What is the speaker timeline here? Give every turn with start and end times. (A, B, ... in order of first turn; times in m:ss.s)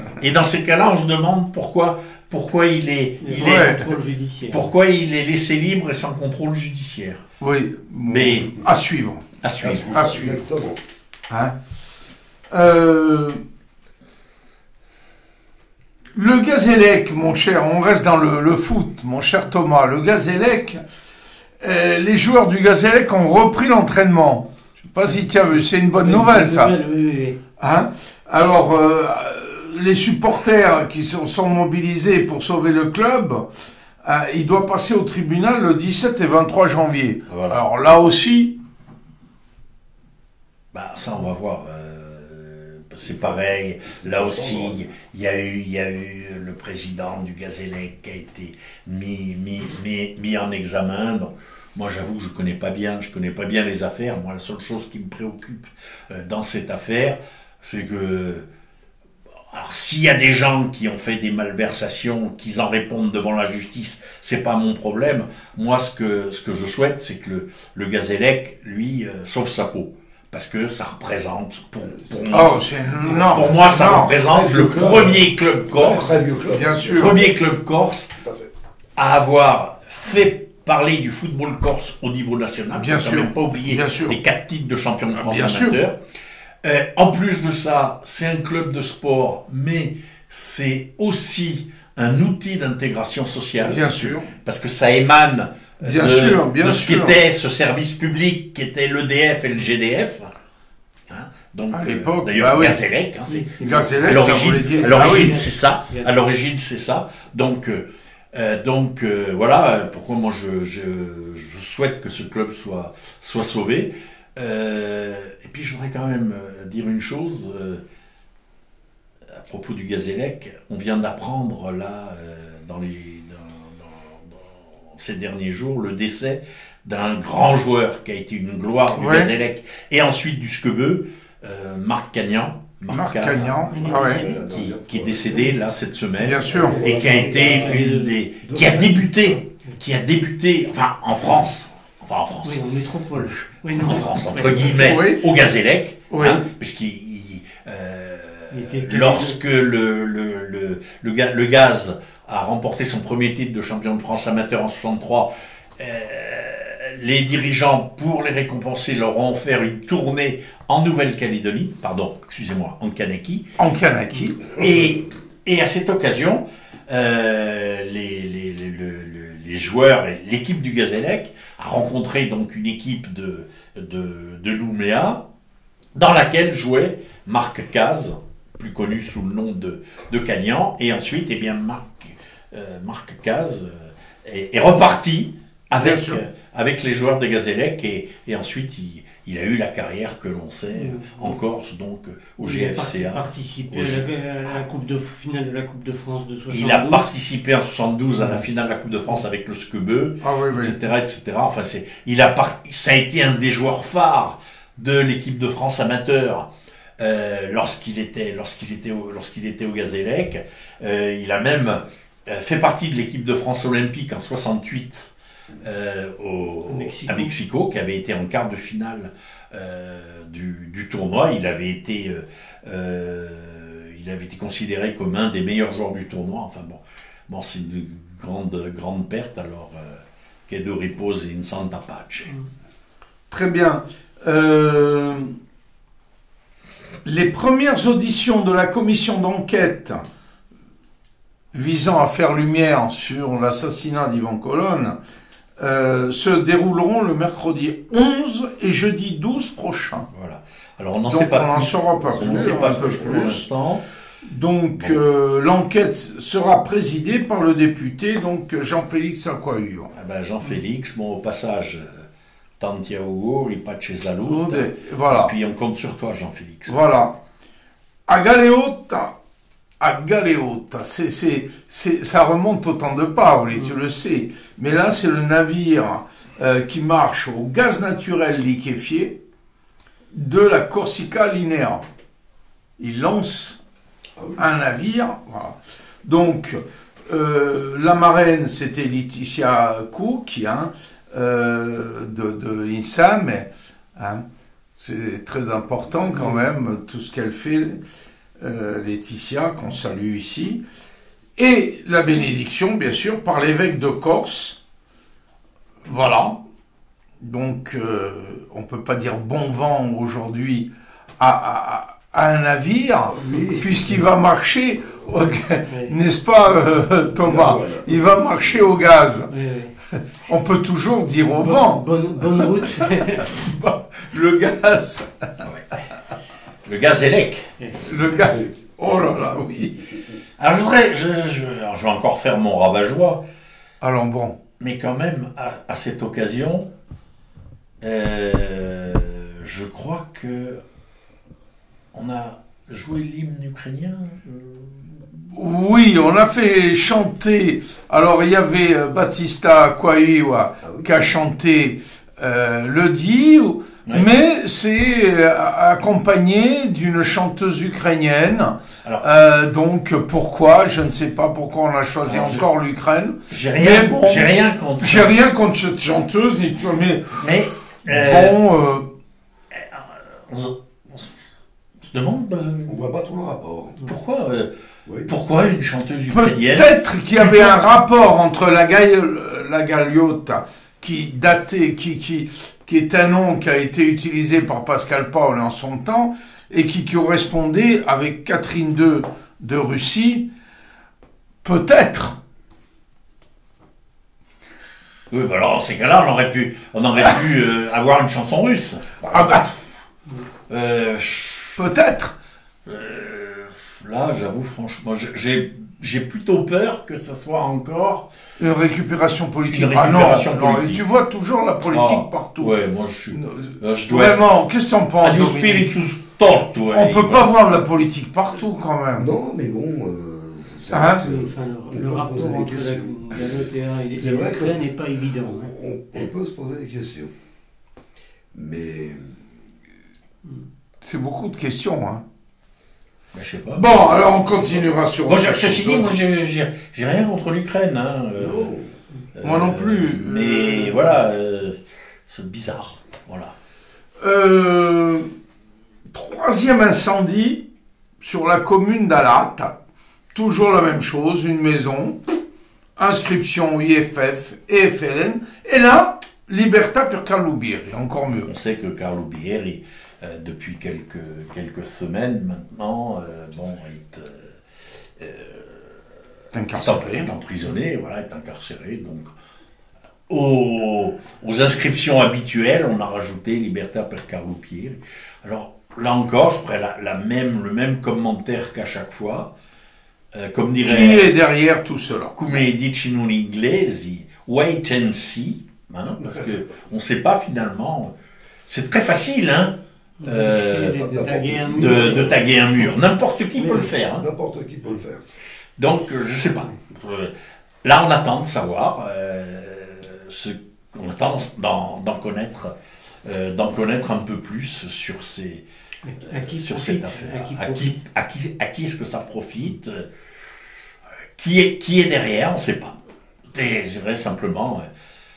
0:00.2-0:04.0 A
0:03.2-0:04.7 B
0:03.4-0:03.8 C
0:04.5-0:07.2 A
0:07.4-0:09.2 C
0:08.1-0:08.6 A
0:09.4-0:10.0 A
0:09.6-0:10.8 D
0:09.9-0:10.4 C
0:12.5-0:13.4 C
0:16.1-0:20.8 C
0:21.6-0:26.7 C
0:26.0-0:27.4 B
0:27.6-0:33.5 C
0:34.0-0:38.6 C
0:37.3-0:37.6 A
0:40.7-0:58.4 A
0:43.0-0:44.9 D
0:59.5-1:16.2 A
1:12.0-1:12.5 D
1:12.3-1:14.1 C
1:13.0-1:17.3 D
1:16.5-1:17.2 C
1:16.9-1:18.1 A
1:18.2-1:18.5 D
1:19.0-1:26.0 A
1:22.8-1:24.2 C
1:25.2-1:25.8 C
1:26.6-1:40.3 A
1:33.6-1:34.3 C
1:35.8-1:37.2 C
1:41.1-1:57.8 A
1:41.7-1:42.8 C
1:43.3-1:46.3 B
1:43.6-1:45.4 C
1:59.3-2:13.7 A
2:09.0-2:09.3 C
2:12.9-2:14.2 C
2:13.5-2:15.6 D
2:13.7-2:14.4 B
2:14.2-2:22.6 A
2:16.2-2:16.8 C
2:16.5-2:19.4 D
2:16.5-2:18.1 B
2:22.4-2:24.9 B
2:23.2-2:43.5 A
2:24.8-2:25.2 C
2:26.1-2:26.4 C
2:28.5-2:29.4 B
2:43.6-2:44.4 C
2:44.5-2:55.2 A
2:56.0-3:14.6 A
3:05.8-3:06.2 C
3:10.8-3:11.4 B
3:12.4-3:17.1 B
3:16.5-3:52.3 A
3:20.2-3:20.8 C
3:36.7-3:37.3 B
3:53.3-3:55.3 C
3:57.0-4:00.0 C
4:01.5-4:05.0 C
4:05.6-4:10.1 C
4:10.1-4:13.8 A
4:11.1-4:13.4 C
4:14.2-4:19.9 C
4:19.9-4:22.1 A
4:22.6-4:26.8 A
4:24.3-4:25.3 C
4:26.7-4:27.2 C
4:28.1-4:29.1 C
4:29.8-4:39.2 C
4:40.1-4:41.8 C
4:42.8-4:43.6 C
4:44.2-4:44.4 D
4:44.4-4:54.2 C
4:54.8-4:57.8 C
4:58.4-5:00.6 C
5:01.4-5:04.6 C
5:05.8-5:06.4 C
5:07.2-5:19.3 C
5:13.1-5:14.0 D
5:15.7-5:16.0 B
5:17.1-5:18.6 D
5:19.3-5:19.7 B
5:20.0-5:25.5 C
5:21.4-5:23.3 B
5:26.7-5:27.5 A
5:27.6-5:27.9 B
5:27.8-5:29.8 C
5:30.4-5:33.2 A
5:33.8-5:34.4 C
5:34.6-5:36.7 A
5:37.8-5:40.6 A
5:41.9-5:45.0 A
5:45.3-6:07.3 C
5:50.6-5:51.0 D
6:02.0-6:02.4 A
6:03.3-6:05.1 A
6:07.2-6:08.4 A
6:07.9-6:08.9 C
6:09.5-6:11.1 A
6:11.8-6:12.8 A
6:12.7-6:13.8 D
6:13.9-6:14.5 A
6:14.9-6:15.1 D
6:15.1-6:17.6 A
6:16.1-6:30.3 C
6:31.4-6:32.2 C
6:35.1-6:39.6 A
6:39.1-6:39.5 C
6:40.5-6:41.6 A
6:41.6-6:42.2 C
6:42.7-6:48.1 A
6:48.4-6:52.5 C
6:49.5-6:50.8 A
6:51.7-6:54.3 A
6:53.1-6:55.7 C
6:55.0-6:57.3 A
6:56.7-6:59.1 C
6:59.0-7:03.3 D
7:00.7-7:01.0 C
7:01.0-7:05.5 B
7:04.0-7:04.7 D
7:05.4-7:07.1 D
7:08.3-7:09.2 D
7:10.8-7:12.0 C
7:13.1-7:14.4 A
7:13.6-7:16.0 C
7:15.1-7:18.5 A
7:18.2-7:18.8 D
7:19.2-7:23.3 A
7:19.2-7:21.0 C
7:24.0-7:25.1 C
7:25.9-7:27.4 C
7:28.0-7:29.6 C
7:30.1-7:32.2 C
7:32.8-7:38.3 C
7:38.3-7:44.4 A
7:45.0-7:45.6 A
7:46.3-7:47.1 C
7:46.5-7:49.1 A
7:50.1-7:59.3 A
8:00.1-8:01.1 A
8:00.6-8:02.1 C
8:02.2-8:07.9 A
8:08.5-8:10.8 A
8:10.0-8:12.3 B
8:10.8-8:12.3 D
8:11.6-8:14.1 A
8:13.4-8:13.7 B
8:14.0-8:15.1 D
8:15.6-8:17.1 A
8:17.6-8:25.4 A
8:25.8-8:27.8 B
8:26.0-8:29.9 A
8:31.2-8:32.8 A
8:33.3-8:34.7 A